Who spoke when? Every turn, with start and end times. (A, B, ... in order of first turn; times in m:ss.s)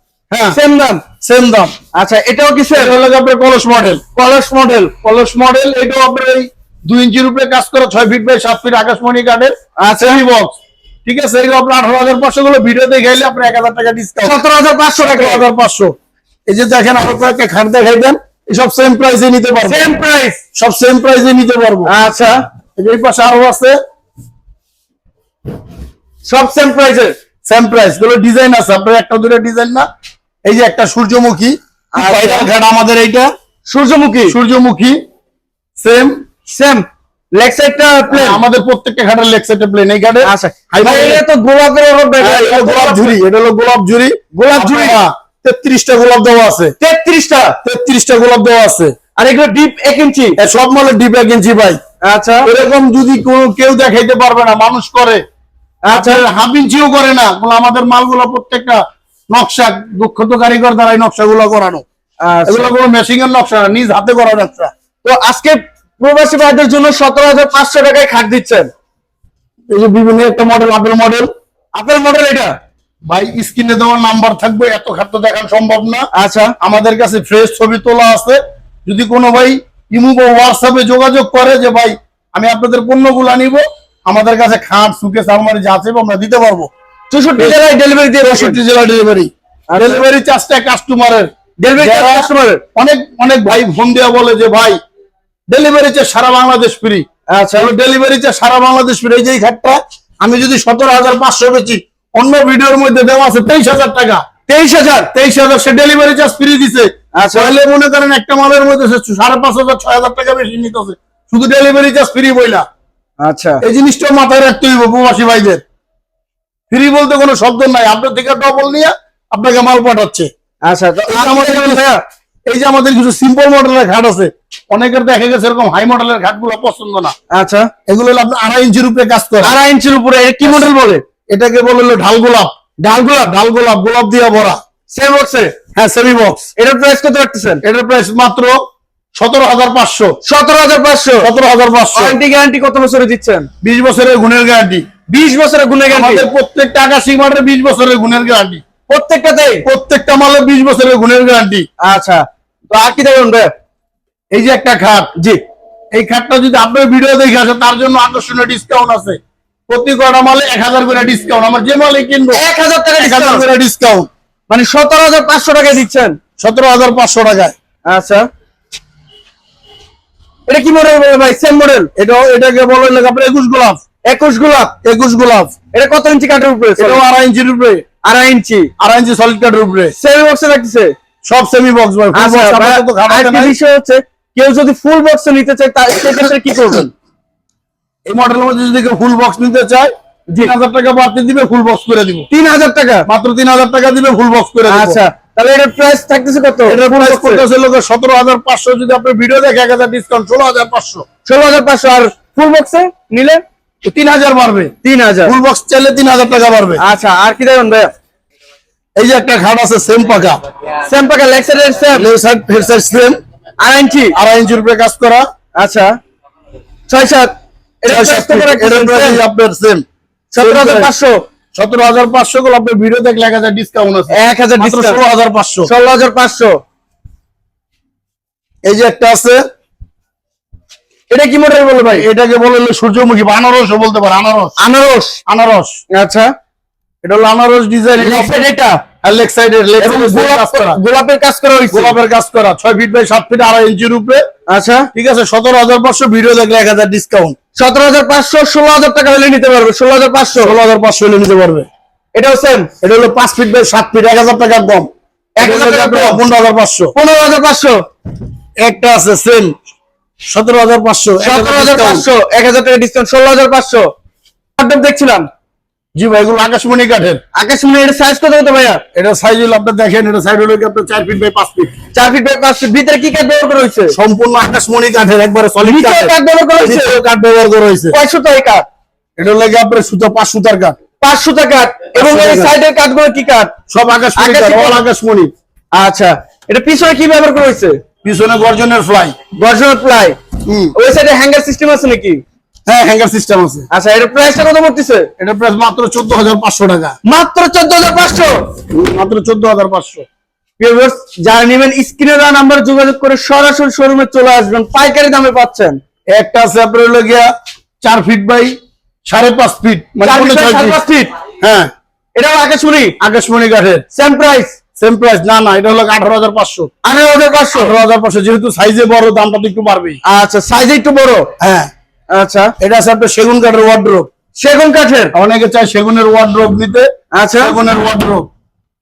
0:00.3-0:00.6 A
0:00.5-0:01.0 B
0:01.2-0:01.7 A
0:01.9-0:02.9 B
0:02.7-0:04.0 A
0:04.2-0:04.9 B
0:05.0-0:14.4 A
0:09.8-0:10.2 B
0:14.2-0:15.4 B
0:15.0-0:15.9 A
0:16.5-0:19.9 A
0:19.6-0:20.4 B
0:20.5-0:21.9 A
0:21.9-0:22.4 B
0:22.8-0:23.8 A
0:26.2-0:27.2 B
0:27.5-0:29.9 A
0:30.4-0:33.3 A
0:32.0-0:32.5 B
0:33.7-0:34.4 B
0:34.3-0:35.0 A
0:35.8-0:36.2 A
0:36.5-0:38.4 B
0:38.1-0:41.2 A
0:40.2-0:43.2 B
0:42.2-0:46.8 A
0:44.3-0:45.0 B
0:46.8-0:47.6 B
0:47.6-0:48.9 A
0:49.2-0:50.4 B
0:50.4-0:51.8 A
0:52.0-0:52.5 B
0:52.4-0:55.2 A
0:55.9-0:56.2 B
0:55.9-1:01.8 A
1:02.2-1:02.7 B
1:02.5-1:04.7 A
1:05.0-1:08.7 B
1:09.7-1:11.3 A
1:11.8-1:12.6 B
1:13.1-1:16.1 A
1:16.1-1:16.6 B
1:16.6-1:26.7 A
1:27.1-1:28.6 B
1:28.2-1:34.8 A
1:29.7-1:30.0 B
1:31.6-1:32.6 B
1:35.5-1:37.0 A
1:37.3-1:37.7 B
1:37.6-1:44.2 A
1:44.5-1:45.1 B
1:45.1-1:52.6 A
1:47.2-1:47.6 B
1:53.2-1:53.6 B
1:53.6-1:55.6 A
1:56.7-2:00.3 A
2:00.6-2:02.0 B
2:01.1-2:01.9 A
2:02.5-2:07.2 A
2:07.3-2:07.7 B
2:07.9-2:09.6 A
2:09.4-2:11.0 B
2:10.4-2:10.7 A
2:11.3-2:12.5 A
2:12.8-2:13.3 B
2:13.2-2:14.6 A
2:14.9-2:15.6 B
2:15.8-2:16.5 A
2:16.6-2:17.6 B
2:17.6-2:18.6 A
2:19.2-2:20.1 A
2:20.2-2:21.3 B
2:21.2-2:22.2 A
2:21.9-2:23.5 B
2:23.6-2:24.9 A
2:25.1-2:26.3 B
2:25.9-2:28.6 A
2:28.9-2:29.6 B
2:29.6-2:31.7 A
2:31.8-2:33.5 B
2:34.3-2:35.1 A
2:35.9-2:42.4 A
2:42.3-2:43.4 B
2:43.0-2:44.1 A
2:44.5-2:46.2 B
2:46.4-2:47.6 A
2:47.9-2:48.3 B
2:50.5-2:51.9 B
2:52.0-2:53.8 A
2:54.1-2:54.8 B
2:54.8-2:55.6 A
2:55.7-2:57.0 B
2:56.8-2:57.8 A
2:58.0-2:58.7 B
2:58.8-2:59.9 A
3:00.0-3:00.9 B
3:01.2-3:03.5 A
3:02.1-3:06.9 B
3:08.1-3:12.3 A
3:12.3-3:13.1 B
3:13.1-3:15.0 A
3:14.7-3:17.4 B
3:16.7-3:21.1 A
3:21.3-3:23.4 B
3:23.8-3:24.7 A
3:24.8-3:25.4 B
3:25.2-3:26.8 A
3:26.8-3:27.9 B
3:29.0-3:30.4 A
3:30.8-3:32.1 B
3:31.9-3:33.2 A
3:33.6-3:34.2 B
3:34.1-3:35.3 A
3:35.6-3:36.0 B
3:36.9-3:37.3 B
3:37.8-3:39.2 B
3:37.9-3:39.8 A
3:40.3-3:41.2 B
3:40.4-3:40.9 A
3:41.6-3:45.7 A
3:44.1-3:45.0 B
3:45.7-3:46.6 B
3:48.6-3:49.4 A
3:51.1-3:52.1 B
3:51.9-3:54.6 A
3:54.6-3:55.2 B
3:55.3-3:55.8 A
3:55.9-3:56.3 B
3:57.0-3:58.4 A
3:58.0-3:58.8 B
3:59.0-4:00.8 A
3:59.8-4:02.0 B
4:01.7-4:04.2 A
4:04.5-4:04.9 B
4:04.9-4:07.4 A
4:07.6-4:10.6 B
4:10.4-4:11.7 A
4:12.2-4:12.7 B
4:12.8-4:14.9 A
4:15.4-4:16.2 B
4:15.4-4:16.9 A
4:17.0-4:17.8 B
4:18.6-4:19.5 A
4:20.3-4:22.1 A
4:21.2-4:23.9 B
4:24.6-4:25.3 B
4:26.0-4:27.2 A
4:27.4-4:28.8 B
4:29.0-4:31.7 A
4:31.9-4:33.9 B
4:33.9-4:38.0 A
4:35.6-4:37.0 B
4:37.9-4:38.7 B
4:39.2-4:40.8 A
4:41.0-4:43.5 B
4:42.0-4:42.5 A
4:43.7-4:45.3 A
4:44.2-4:44.8 B
4:45.7-4:47.8 B
4:48.0-4:49.2 A
4:49.4-4:50.2 B
4:50.4-4:50.7 A
4:50.8-4:52.2 B
4:52.7-4:53.7 A
4:53.7-4:55.1 B
4:55.2-4:57.0 A
4:57.0-4:58.5 B
4:58.7-5:00.1 A
5:00.6-5:05.8 B
5:06.1-5:07.3 A
5:07.8-5:08.6 A
5:09.1-5:10.8 A
5:10.0-5:11.1 B
5:11.4-5:11.7 A
5:12.2-5:13.0 B
5:13.0-5:13.8 A
5:13.9-5:14.6 B
5:14.8-5:16.7 A
5:16.8-5:17.8 B
5:17.5-5:20.0 A
5:20.0-5:21.3 B
5:21.4-5:21.7 A
5:22.1-5:22.5 B
5:22.6-5:24.1 A
5:24.4-5:25.1 B
5:25.1-5:26.9 A
5:27.1-5:27.6 B
5:27.4-5:28.3 A